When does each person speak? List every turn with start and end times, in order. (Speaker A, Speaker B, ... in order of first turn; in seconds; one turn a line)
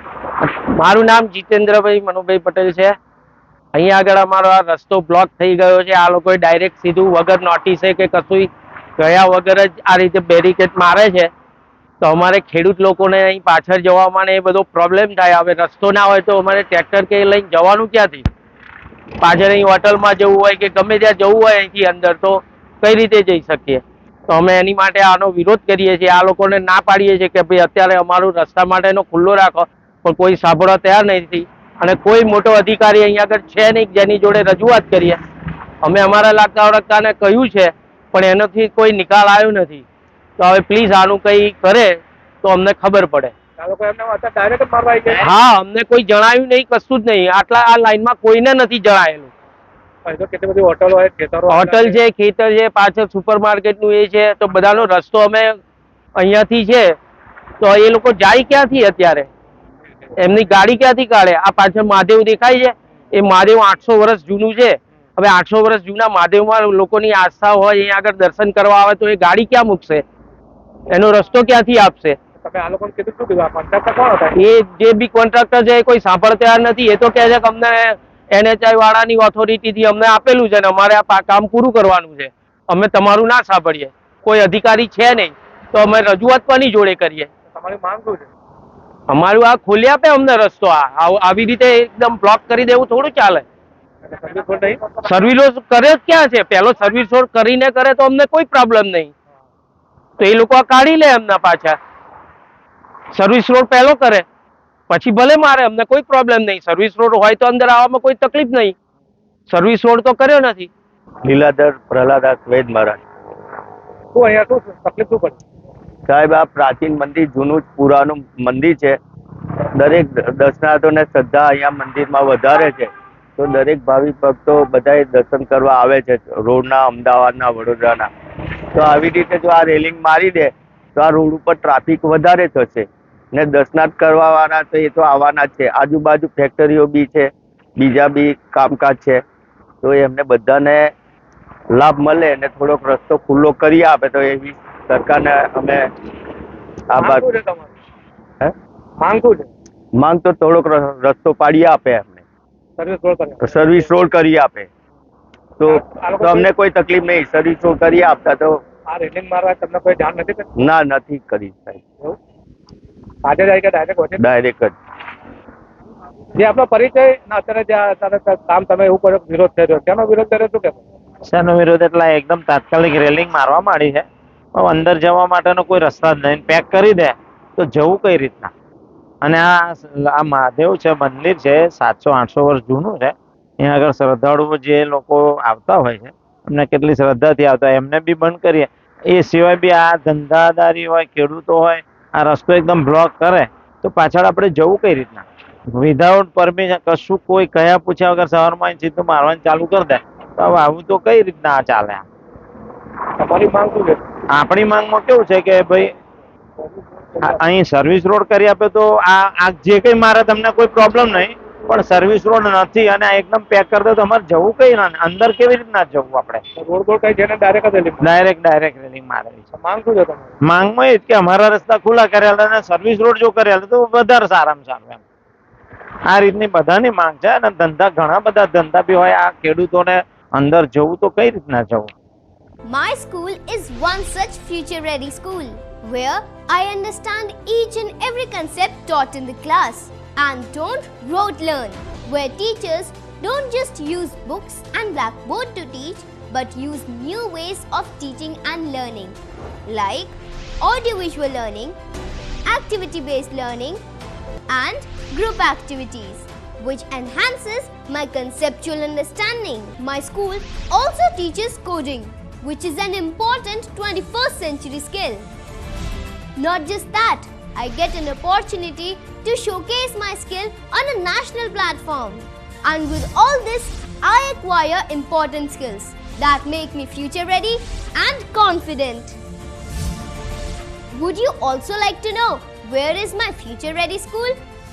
Speaker A: 0.7-3.0
Speaker A: 3.7-11.3
Speaker A: 12.0-18.2
Speaker A: 19.2-35.2
Speaker A: 35.8-39.8
Speaker A: 40.4-43.4
Speaker B: 43.6-45.2
Speaker A: 45.2-49.3
Speaker B: 50.0-52.0
Speaker A: 51.5-55.6
Speaker A: 56.2-57.0
Speaker A: 57.6-59.3
Speaker A: 60.2-70.0
Speaker A: 70.9-72.2
Speaker B: 72.4-74.4
Speaker A: 74.4-87.3
Speaker B: 87.5-88.3
Speaker A: 89.1-93.5
Speaker B: 94.1-95.1
Speaker A: 94.9-99.1
Speaker A: 100.2-101.8
Speaker A: 103.1-104.3
Speaker A: 104.9-108.8
Speaker A: 109.5-110.7
Speaker C: 111.2-113.0
Speaker B: 114.1-115.4
Speaker C: 116.1-119.0
Speaker C: 119.8-128.1
Speaker C: 128.7-139.2
Speaker C: 139.8-140.9
Speaker C: 141.7-145.9
Speaker C: 146.9-147.3
Speaker B: 147.0-147.8
Speaker B: 149.0-149.5
Speaker C: 150.0-152.2
Speaker B: 152.8-153.9
Speaker C: 153.4-154.7
Speaker C: 155.6-158.6
Speaker B: 155.7-156.5
Speaker B: 158.9-160.5
Speaker C: 160.6-161.8
Speaker B: 163.2-164.2
Speaker C: 164.2-164.8
Speaker B: 166.4-170.8
Speaker D: 171.3-174.1
Speaker D: 174.6-178.5
Speaker D: 179.2-202.0
Speaker B: 203.2-204.0
Speaker D: 204.3-205.9
Speaker D: 207.2-216.4
Speaker B: 216.6-218.1
Speaker D: 218.0-219.4
Speaker B: 219.5-220.3
Speaker D: 220.4-225.0
Speaker D: 226.1-231.9
Speaker E: 232.7-249.2
Speaker E: 249.7-251.8
Speaker E: 252.5-253.8
Speaker E: 254.5-265.2
Speaker E: 266.4-279.2
Speaker E: 280.9-284.4